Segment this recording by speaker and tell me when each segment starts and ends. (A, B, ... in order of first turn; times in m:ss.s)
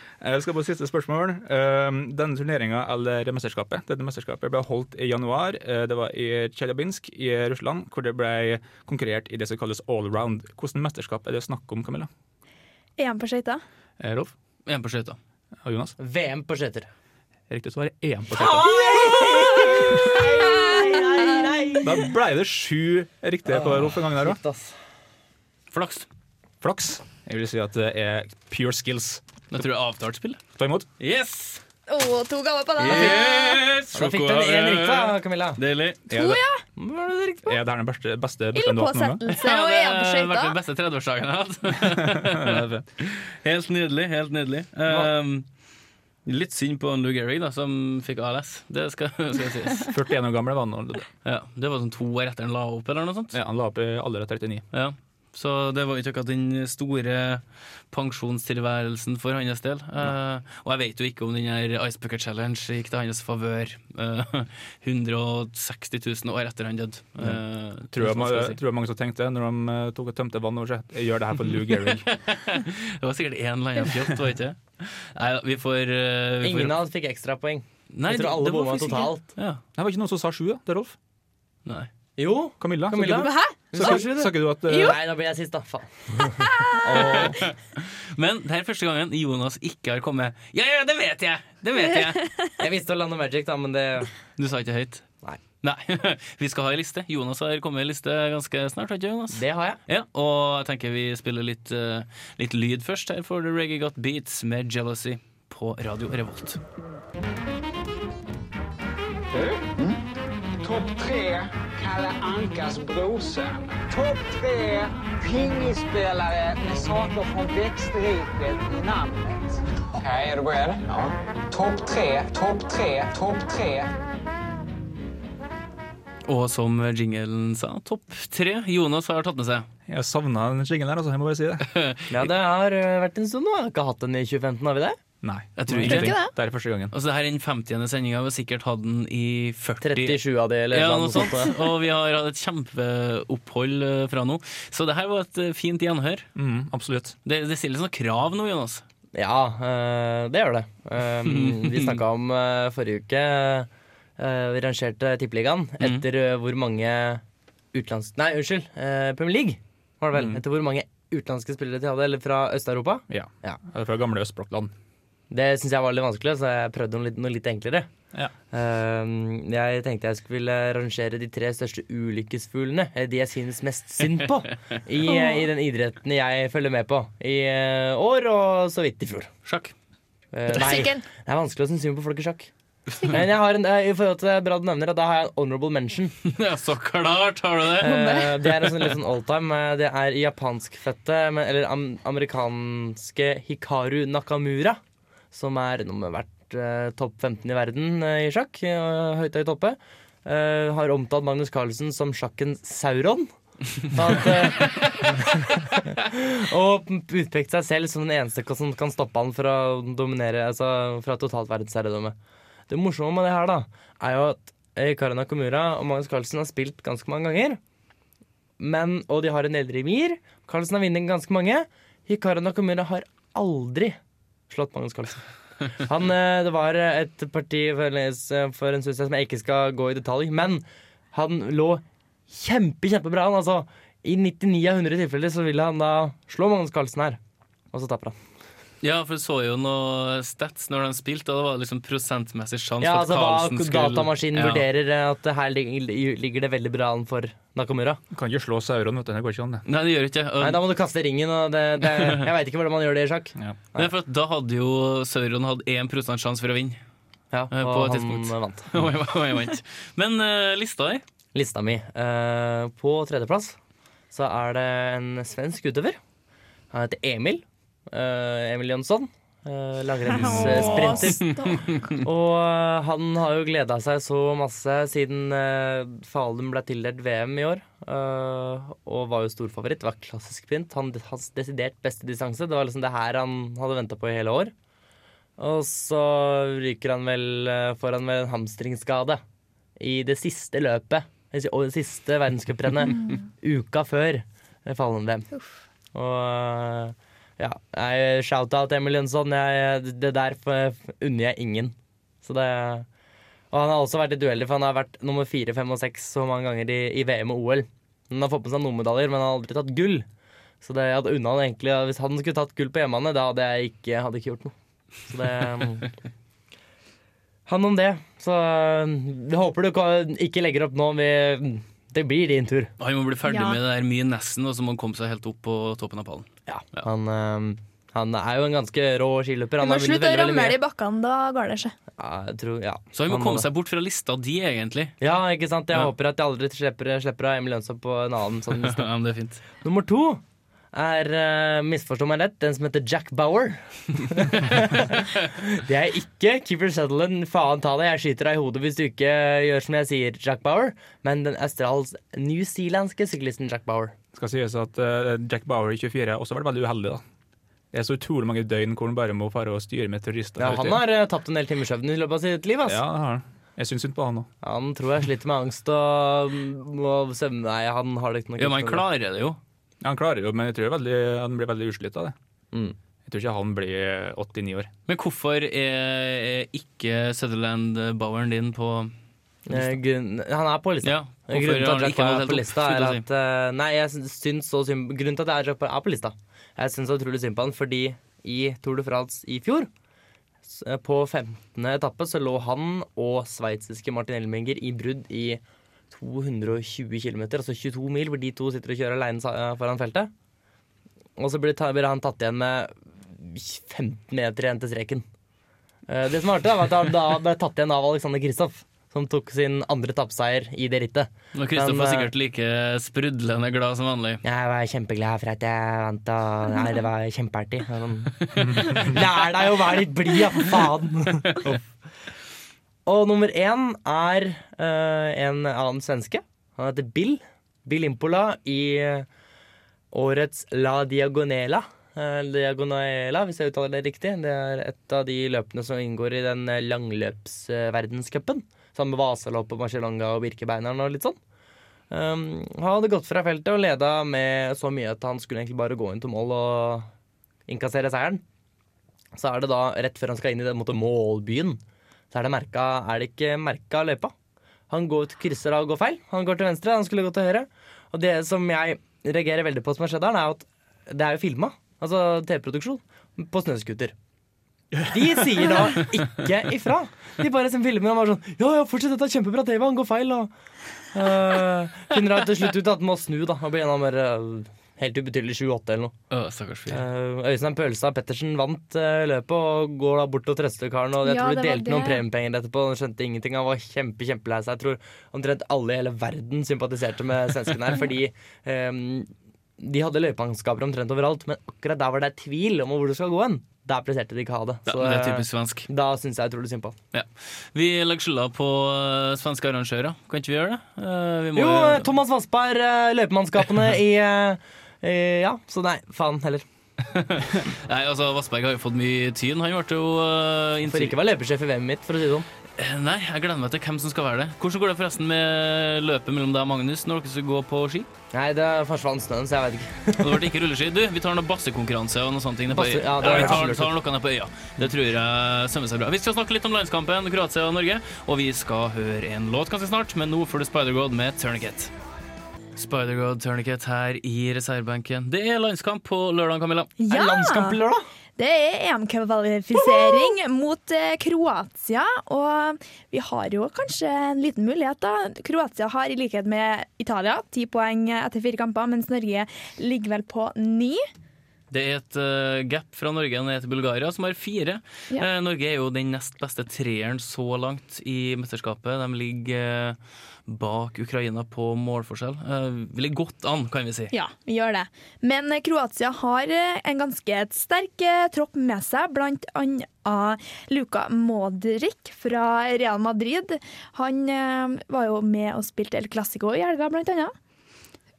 0:00.2-0:12.1 A
0:13.0-0:13.6 B
0:14.0-0:14.3 A
0:14.7-0:15.2 C
0:15.6-0:16.0 A
0:16.0-0:16.9 D
0:17.5-0:18.7 A
0:18.3-0:22.1 D
0:18.9-0:21.5 B
0:21.8-0:24.4 A
0:23.5-0:24.7 D
0:25.7-0:26.1 C
0:26.6-0:29.2 A
0:29.5-0:30.4 C
0:30.6-0:30.9 A
0:31.0-0:31.6 C
0:31.9-0:33.6 B
0:32.8-0:36.0 C
0:33.9-0:35.6 D
0:36.1-0:36.4 A
0:36.1-0:36.6 B
0:36.8-0:37.6 D
0:37.5-0:39.2 A
0:38.5-0:40.6 B
0:39.3-0:45.5 C
0:41.8-0:42.8 A
0:46.3-0:49.9 C
0:49.9-0:51.1 A
0:51.2-0:53.4 C
0:53.3-0:54.7 A
0:54.7-1:08.6 C
1:07.2-1:12.1 A
1:11.5-1:16.8 C
1:16.4-1:19.2 D
1:17.9-1:19.6 C
1:19.8-1:21.0 A
1:22.2-1:27.3 D
1:22.6-1:25.0 A
1:23.1-1:24.1 B
1:24.7-1:25.0 B
1:26.5-1:27.2 B
1:26.9-1:27.3 A
1:27.8-1:32.3 C
1:32.6-1:34.1 D
1:34.4-1:35.0 C
1:35.6-1:46.6 C
1:39.3-1:39.8 D
1:49.3-1:50.0 E
1:50.6-2:03.9 E
2:06.3-2:09.7 C
2:09.9-2:11.7 A
2:11.7-2:12.3 C
2:12.1-2:15.0 D
2:15.2-2:16.9 A
2:15.6-2:16.2 C
2:15.8-2:16.3 B
2:16.9-2:26.3 C
2:19.8-2:21.5 D
2:26.4-2:27.2 A
2:27.2-2:28.8 C
2:29.1-2:37.2 D
2:31.2-2:32.0 C
2:37.7-2:43.6 D
2:40.1-2:40.4 A
2:43.1-2:44.7 A
2:45.3-2:47.9 D
2:48.5-2:59.3 D
2:55.1-2:55.5 B
2:59.4-2:59.7 C
3:00.3-3:02.5 D
3:00.5-3:01.1 B
3:03.1-3:06.1 D
3:06.2-3:08.0 C
3:07.8-3:14.8 D
3:07.8-3:08.7 B
3:15.3-3:23.3 D
3:23.8-3:32.2 D
3:32.7-3:37.6 D
3:38.6-3:44.0 D
3:44.5-3:57.2 D
3:57.7-3:58.2 D
3:58.8-4:04.6 C
4:02.8-4:08.0 D
4:08.1-4:09.6 A
4:09.7-4:10.6 C
4:10.4-4:13.9 D
4:13.8-4:16.8 C
4:17.3-4:18.7 D
4:17.5-4:21.0 C
4:21.3-4:23.6 D
4:24.1-4:26.0 D
4:26.7-4:44.5 D
4:30.1-4:31.8 B
4:30.3-4:32.0 C
4:45.4-4:49.2 D
4:49.8-4:55.3 D
4:55.9-5:02.9 D
5:03.5-5:10.1 D
5:10.6-5:14.5 D
5:15.1-5:15.9 D
5:17.5-5:22.7 D
5:22.8-5:26.9 C
5:23.3-5:23.6 B
5:26.5-5:30.6 D
5:29.6-5:31.7 B
5:32.0-5:33.5 D
5:32.9-5:35.0 C
5:35.0-5:38.9 D
5:38.6-5:39.4 C
5:39.6-5:40.2 D
5:40.7-5:53.9 D
5:54.1-5:57.0 A
5:57.7-6:00.8 A
6:00.4-6:02.8 D
6:02.6-6:04.3 A
6:04.4-6:08.8 D
6:08.4-6:09.4 C
6:09.8-6:12.2 A
6:12.5-6:12.8 D
6:13.1-6:14.7 A
6:14.9-6:18.9 C
6:19.5-6:29.7 D
6:19.5-6:19.8 C
6:20.8-6:23.0 C
6:30.5-6:40.1 D
6:41.2-6:45.1 D
6:45.9-6:52.1 D
6:51.3-6:54.2 C
6:54.2-7:01.6 D
6:58.4-6:58.9 A
7:02.9-7:09.1 D
7:09.9-7:21.2 D
7:21.9-7:26.9 D
7:27.5-7:28.2 D
7:29.2-7:31.6 D
7:32.1-7:34.1 D
7:34.7-7:43.9 D
7:44.9-7:50.3 D
7:50.9-7:55.9 D
7:56.1-7:56.8 C
7:56.7-8:16.8 D
8:01.0-8:02.0 B
8:14.7-8:15.7 C
8:16.9-8:21.9 C
8:21.4-8:26.4 D
8:26.9-8:31.0 C
8:30.7-8:32.3 D
8:32.6-8:37.9 C
8:38.1-8:40.2 D
8:40.0-8:51.7 C
8:42.5-8:43.8 D
8:52.6-8:56.7 C
8:56.8-8:57.6 B
8:56.9-8:57.9 D
8:58.2-9:10.8 B
8:59.6-9:00.1 D
9:11.5-9:23.9 C
9:23.9-9:37.1 B